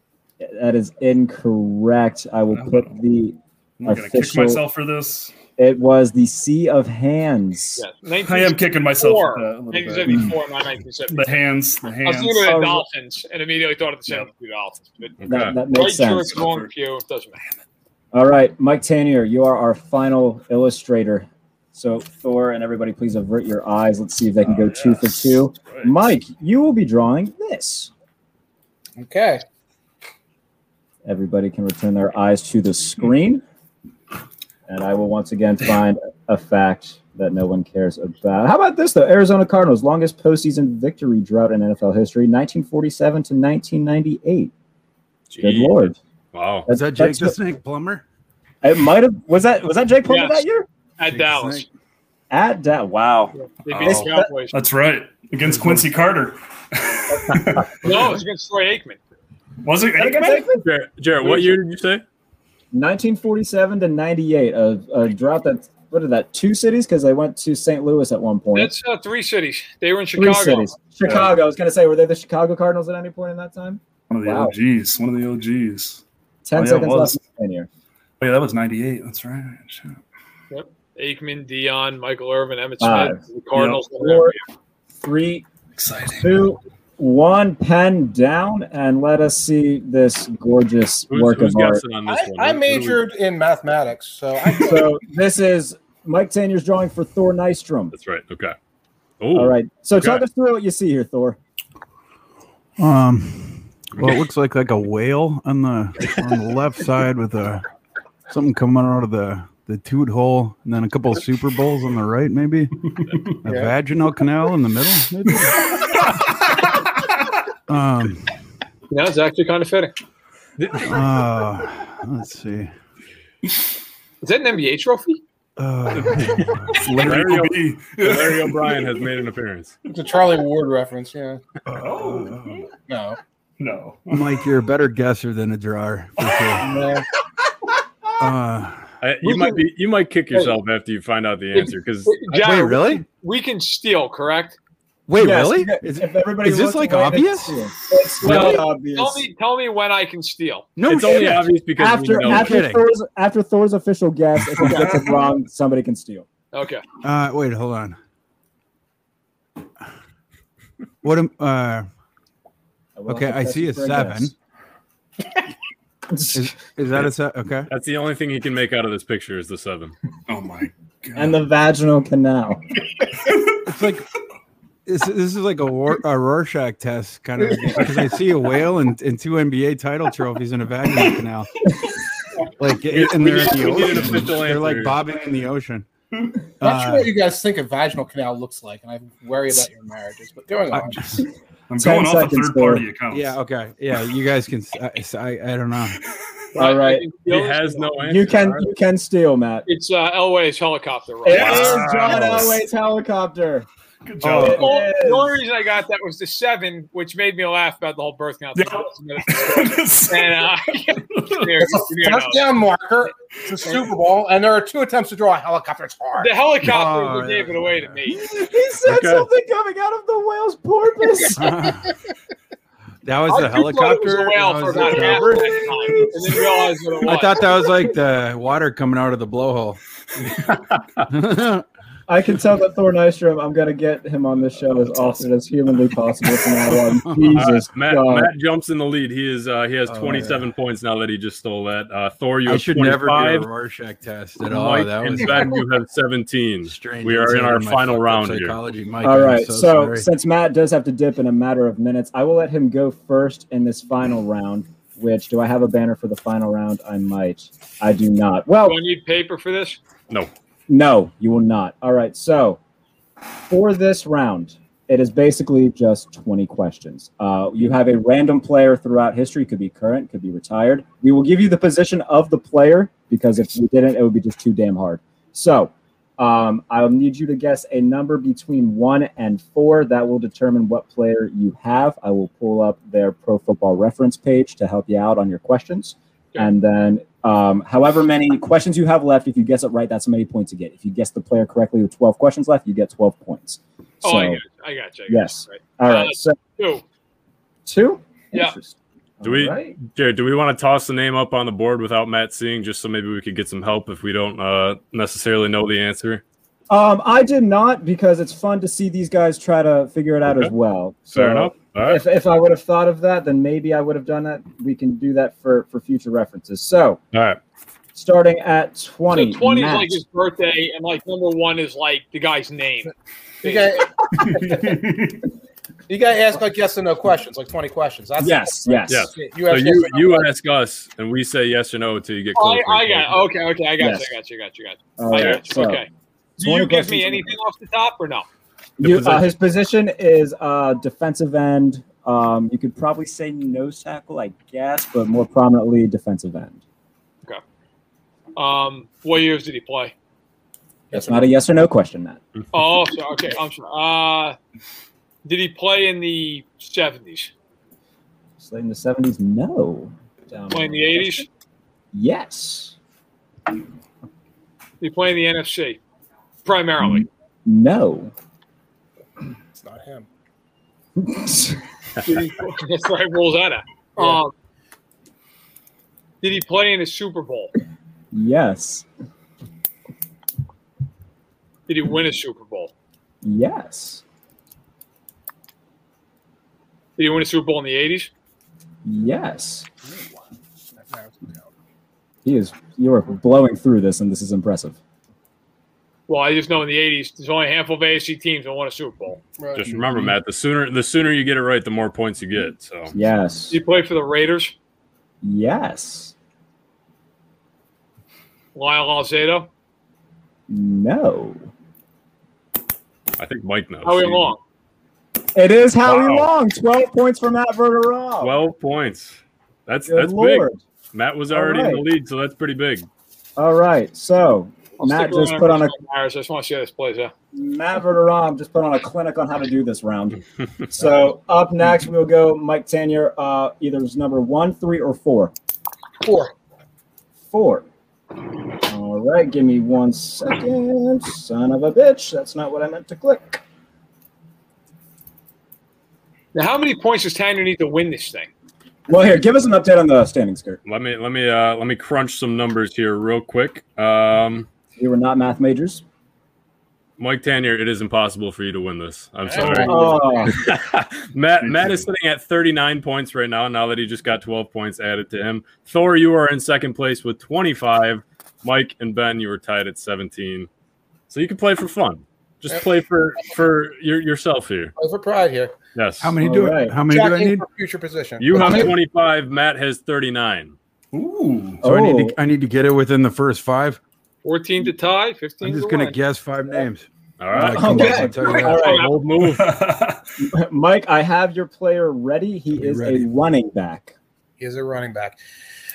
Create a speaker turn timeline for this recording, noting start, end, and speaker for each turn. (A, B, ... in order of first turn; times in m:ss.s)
0:00.4-0:04.6 A
0:02.5-0:02.9 B
0:03.8-0:05.3 B
0:05.6-0:07.8 A
0:07.8-0:11.3 C
0:08.2-0:10.3 B
0:11.1-0:12.6 B
0:12.0-0:15.2 C
0:12.4-0:12.8 A
0:15.2-0:15.6 D
0:15.2-0:16.4 A
0:15.7-0:17.4 C
0:16.3-0:16.7 B
0:18.1-0:27.9 A
0:24.4-0:26.0 B
0:29.0-0:29.4 E
0:31.0-0:33.4 A
0:34.7-0:44.5 A
0:45.3-0:46.7 D
0:45.4-0:46.0 A
0:46.7-0:47.4 A
0:46.7-0:48.0 F
0:48.6-0:50.7 A
0:50.1-0:50.4 C
0:51.0-0:51.6 C
0:51.0-0:51.6 F
0:52.3-0:54.3 A
0:53.3-0:54.6 C
0:53.7-0:58.2 B
0:55.5-0:55.8 F
0:57.8-0:59.0 C
0:59.6-1:00.5 B
1:00.0-1:00.6 A
1:00.6-1:02.0 D
1:02.7-1:08.7 A
1:08.5-1:10.7 C
1:10.1-1:14.5 A
1:11.0-1:11.3 B
1:14.1-1:16.0 B
1:16.4-1:17.7 A
1:16.5-1:17.2 B
1:18.2-1:20.0 B
1:20.5-1:24.4 C
1:22.8-1:23.2 A
1:23.9-1:24.4 A
1:25.0-1:25.4 A
1:25.8-1:26.4 B
1:26.2-1:31.8 A
1:31.1-1:33.0 D
1:32.0-1:34.9 E
1:34.6-1:37.9 A
1:37.9-1:38.5 D
1:39.2-1:40.2 D
1:39.3-1:41.4 A
1:42.8-1:47.6 F
1:48.3-1:52.7 F
1:52.9-1:53.3 B
1:53.4-1:55.8 F
1:53.5-1:53.7 E
1:57.7-1:58.3 F
1:58.9-1:59.9 C
2:00.8-2:02.7 F
2:04.2-2:05.2 C
2:05.6-2:07.2 F
2:05.9-2:08.9 B
2:06.9-2:09.7 D
2:09.9-2:11.4 E
2:11.7-2:12.7 F
2:11.8-2:12.7 B
2:12.9-2:13.2 E
2:13.6-2:14.4 B
2:14.1-2:16.7 F
2:16.2-2:16.7 B
2:16.6-2:17.0 E
2:18.2-2:18.8 F
2:19.0-2:22.5 D
2:19.2-2:19.6 C
2:20.3-2:20.6 C
2:21.5-2:24.6 C
2:22.4-2:23.0 F
2:25.1-2:27.6 F
2:25.2-2:29.2 A
2:28.2-2:30.7 C
2:30.8-2:31.6 F
2:30.9-2:32.6 D
2:31.1-2:36.2 A
2:32.2-2:32.8 F
2:34.6-2:34.9 B
2:36.5-2:36.8 C
2:37.0-2:38.0 F
2:41.0-2:41.9 F
2:43.0-2:44.3 A
2:43.1-2:44.3 F
2:46.3-2:47.7 F
2:47.7-2:49.9 D
2:50.3-2:51.4 B
2:51.1-2:52.6 A
2:53.2-2:53.5 B
2:53.6-2:54.0 F
2:54.8-3:01.5 F
3:02.6-3:05.9 F
3:02.9-3:05.0 D
3:06.6-3:07.1 F
3:06.6-3:11.2 E
3:10.7-3:11.0 F
3:11.7-3:13.4 B
3:11.8-3:12.8 A
3:13.1-3:16.0 F
3:16.5-3:17.9 C
3:16.6-3:17.1 A
3:17.3-3:18.7 D
3:18.0-3:19.7 A
3:19.7-3:21.9 C
3:21.2-3:23.6 A
3:21.3-3:22.6 B
3:24.0-3:24.8 B
3:24.2-3:24.6 F
3:24.3-3:25.4 A
3:24.4-3:32.4 C
3:28.5-3:31.5 B
3:31.9-3:36.3 E
3:36.2-3:38.2 C
3:36.6-3:38.0 F
3:38.1-3:41.5 A
3:38.8-3:39.3 D
3:41.4-3:41.8 F
3:43.0-3:45.7 F
3:43.3-3:47.6 C
3:45.2-3:46.4 A
3:47.0-3:49.8 F
3:50.4-3:51.1 D
3:51.1-3:51.6 F
3:52.1-3:58.3 A
3:57.0-3:57.4 F
3:57.3-4:03.5 D
3:59.8-4:00.4 F
4:02.4-4:05.5 F
4:04.5-4:08.6 D
4:05.2-4:05.6 E
4:06.6-4:10.1 F
4:09.0-4:18.8 A
4:18.6-4:19.8 C
4:20.7-4:22.6 A
4:23.5-4:54.4 A
4:54.0-4:56.8 C
4:55.1-4:56.4 A
4:57.6-4:59.8 A
4:59.2-5:06.2 D
5:06.7-5:17.0 A
5:11.1-5:12.0 D
5:17.1-5:17.4 D
5:17.9-5:20.0 A
5:19.1-5:23.8 C
5:23.4-5:24.6 E
5:24.2-5:25.2 B
5:25.9-5:30.3 E
5:28.2-5:29.1 A
5:28.9-5:33.3 D
5:32.3-5:38.3 C
5:33.8-5:34.1 A
5:35.0-5:35.8 A
5:36.4-5:37.4 A
5:38.8-5:46.6 A
5:38.8-5:39.3 D
5:48.4-5:49.9 C
5:50.9-5:51.2 E
5:50.9-5:52.2 A
5:52.5-5:54.4 C
5:55.2-5:57.3 C
5:58.4-6:01.3 A
6:00.5-6:01.3 C
6:01.9-6:02.8 A
6:04.8-6:05.8 C
6:06.4-6:07.1 C
6:06.8-6:08.1 A
6:09.6-6:10.1 E
6:11.0-6:11.6 A
6:12.0-6:14.3 C
6:16.2-6:17.5 C
6:18.1-6:18.9 A
6:21.7-6:22.7 C
6:23.2-6:24.0 A
6:27.0-6:28.1 C
6:28.8-6:29.7 A
6:30.8-6:31.5 E
6:32.2-6:34.8 A
6:36.1-6:39.2 C
6:39.4-6:39.6 E
6:39.5-6:42.9 D
6:39.6-6:40.1 B
6:42.9-6:43.6 A
6:43.5-6:44.5 C
6:45.2-6:46.1 A
6:48.5-6:49.5 C
6:50.5-6:51.5 A
6:53.2-6:54.3 D
6:53.8-6:54.4 C
6:55.3-6:58.4 A
6:55.8-6:56.3 D
6:58.2-7:02.9 D
6:59.8-7:00.6 A
7:01.3-7:01.8 A
7:03.4-7:05.7 A
7:04.8-7:07.1 C
7:07.3-7:15.3 A
7:16.0-7:16.3 E
7:17.3-7:17.6 A
7:18.6-7:23.4 A
7:26.3-7:28.3 C
7:28.9-7:30.6 A
7:30.6-7:34.5 D
7:34.8-7:35.8 A
7:37.0-7:50.5 D
7:39.2-7:40.3 E
7:39.4-7:40.4 A
7:41.4-7:41.8 B
7:51.1-7:54.7 D
7:54.8-7:55.5 E
7:55.7-7:56.1 D
7:56.0-7:57.4 F
7:56.2-7:56.8 A
7:56.9-7:58.7 E
7:58.2-8:00.5 D
7:58.4-7:58.7 A
8:00.9-8:01.6 B
8:01.6-8:02.2 A
8:01.6-8:03.8 F
8:04.2-8:06.0 C
8:05.4-8:08.7 F
8:07.2-8:09.6 D
8:07.4-8:08.9 A
8:08.2-8:09.0 C
8:09.2-8:10.0 B
8:10.2-8:13.9 A
8:12.5-8:13.1 F
8:14.4-8:15.2 E